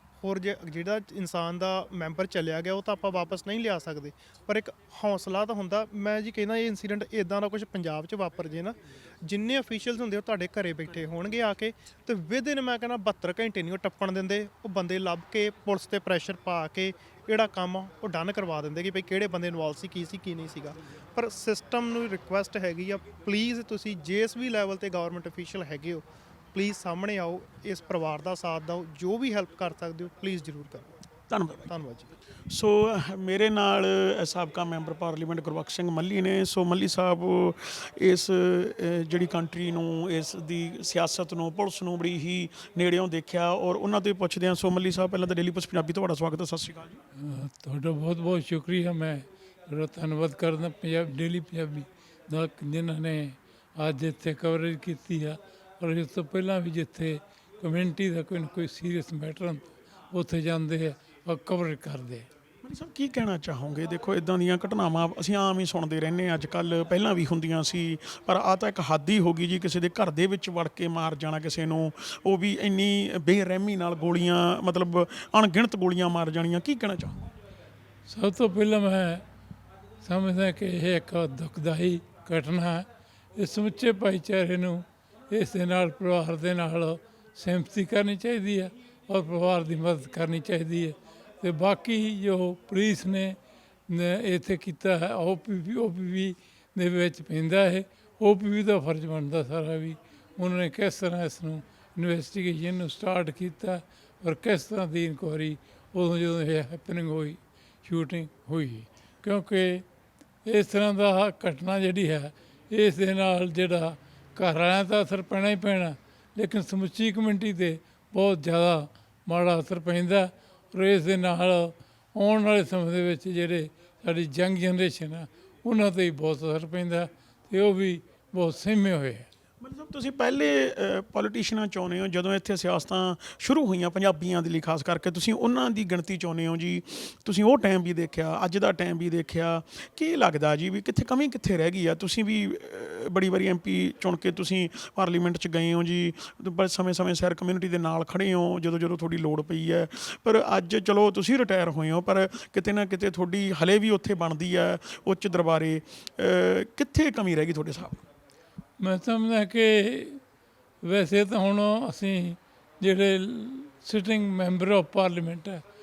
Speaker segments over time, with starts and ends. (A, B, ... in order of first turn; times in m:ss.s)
0:00.2-0:31.0 A
0:31.3-0:31.7 B
0:31.7-0:32.1 A
0:32.5-0:47.0 B
0:47.2-1:02.3 C
1:02.6-1:17.2 B
1:18.0-1:19.2 C
1:20.0-1:33.4 C
1:33.9-1:49.8 C
1:50.4-2:09.3 C
2:09.6-2:38.0 B
2:38.8-2:40.2 C
2:40.8-2:45.6 C